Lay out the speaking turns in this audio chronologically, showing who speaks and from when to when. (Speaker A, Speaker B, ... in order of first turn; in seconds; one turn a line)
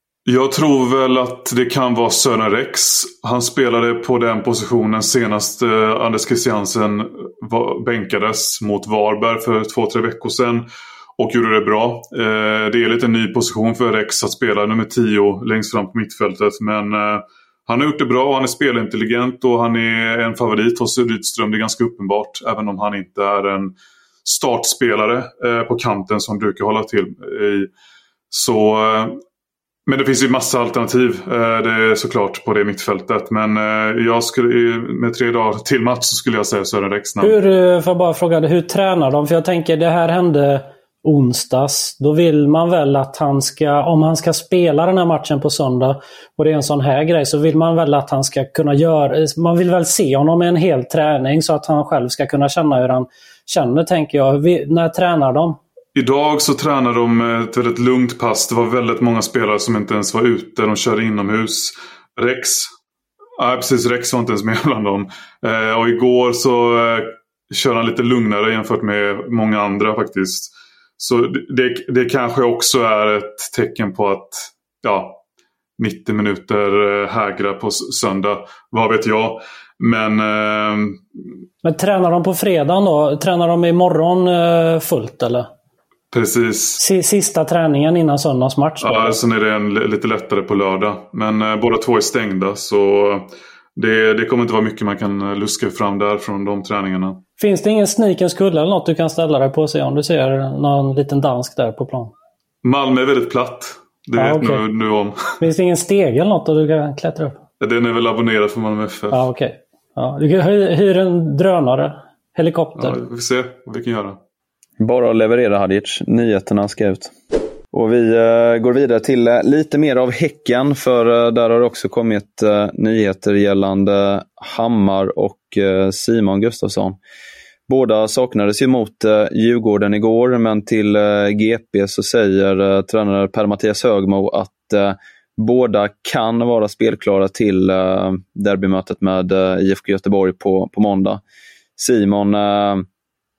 Speaker A: 0.2-27.7
Speaker A: 28.3-29.2
Speaker A: 29.9-37.4
Speaker B: 37.2-55.6
Speaker A: 55.9-62.7
Speaker A: 63.4-75.2
Speaker A: 75.8-81.0
Speaker B: 81.6-85.5
Speaker A: 86.1-86.8
Speaker B: 86.8-89.2
Speaker A: 88.8-97.2
Speaker B: 97.4-102.1
Speaker A: 102.6-105.3
Speaker B: 104.2-104.6
Speaker B: 105.4-107.4
Speaker A: 107.6-109.2
Speaker B: 109.1-113.0
Speaker A: 112.8-114.2
Speaker C: 114.8-117.1
Speaker C: 117.7-127.0
Speaker C: 127.7-141.2
Speaker C: 141.8-142.8